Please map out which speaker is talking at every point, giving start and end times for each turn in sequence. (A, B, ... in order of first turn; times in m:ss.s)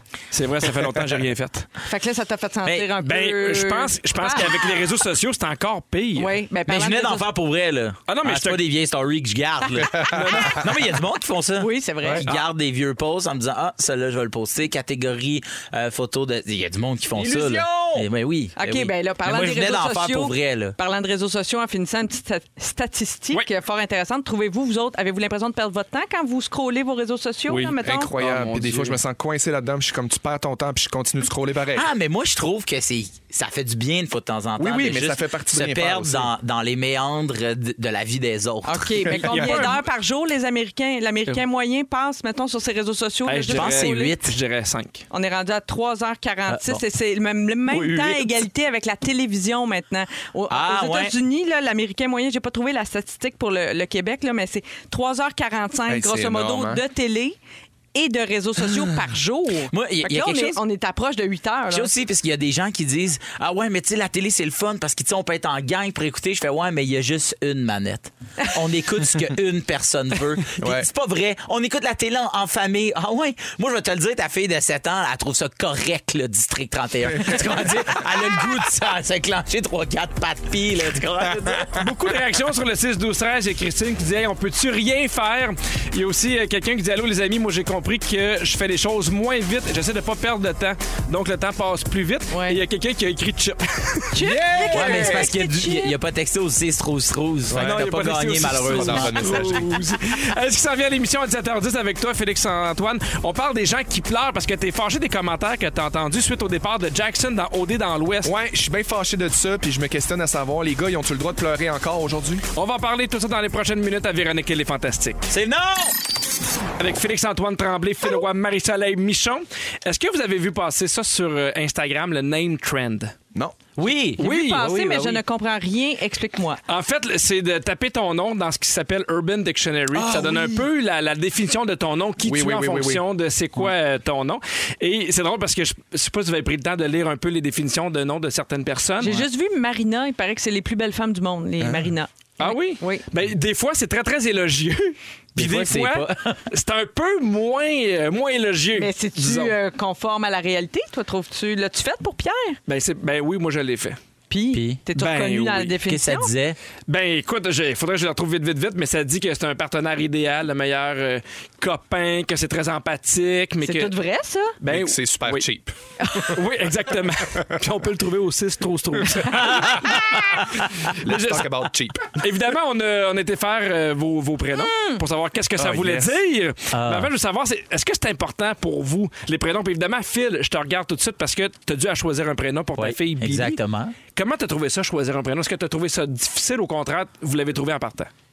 0:00.3-0:01.7 A
0:01.8-0:04.9 B
0:03.0-0:06.3 A
0:06.2-0:07.3 B
0:06.7-0:20.8 C
0:08.1-0:08.6 A
0:09.8-0:10.7 D
0:10.1-0:10.8 A
0:11.6-0:12.3 B
0:17.1-0:18.1 A
0:18.6-0:28.1 B
0:27.5-0:29.0 A
0:27.8-0:31.9 D
0:31.7-0:39.6 C
0:34.6-0:36.3 D
0:38.6-0:44.1 B
0:39.3-0:39.8 A
0:43.2-0:45.0 A
0:43.5-0:44.3 C
0:45.1-0:57.4 B
0:46.5-0:46.8 C
0:47.7-0:48.4 A
0:50.5-0:51.1 C
0:55.9-0:56.8 D
0:57.9-1:01.9 B
0:59.7-1:00.6 C
1:01.7-1:21.8 C
1:10.6-1:10.9 D
1:17.1-1:17.7 D
1:21.3-1:21.8 D
1:21.7-1:35.2 A
1:32.3-1:32.6 B
1:34.1-1:35.9 B
1:34.2-1:35.2 D
1:34.7-1:39.6 C
1:37.5-1:37.8 D
1:37.5-1:48.3 A
1:38.6-1:39.7 D
1:48.2-1:52.4 D
1:52.5-1:55.3 A
1:55.3-1:55.9 C
1:56.8-2:03.1 A
2:03.8-2:05.2 C
2:04.2-2:04.6 A
2:04.2-2:06.6 B
2:06.7-2:19.2 A
2:09.9-2:10.6 D
2:12.2-2:13.0 D
2:19.0-2:23.0 B
2:21.6-2:21.9 D
2:22.4-2:29.5 A
2:25.3-2:26.4 C
2:28.8-2:32.6 B
2:32.7-2:34.0 A
2:34.3-2:36.3 B
2:34.5-2:34.8 C
2:35.0-2:35.7 A
2:35.7-2:36.6 C
2:36.9-2:43.9 A
2:43.6-2:44.6 B
2:44.6-2:45.4 A
2:44.7-2:46.4 D
2:46.0-2:46.3 B
2:46.3-2:51.5 A
2:49.0-2:50.2 D
2:50.8-2:52.2 D
2:52.1-3:03.6 A
2:54.6-2:55.0 B
2:55.6-2:56.2 D
2:56.7-2:57.1 C
3:02.8-3:04.0 C
3:04.1-3:08.1 A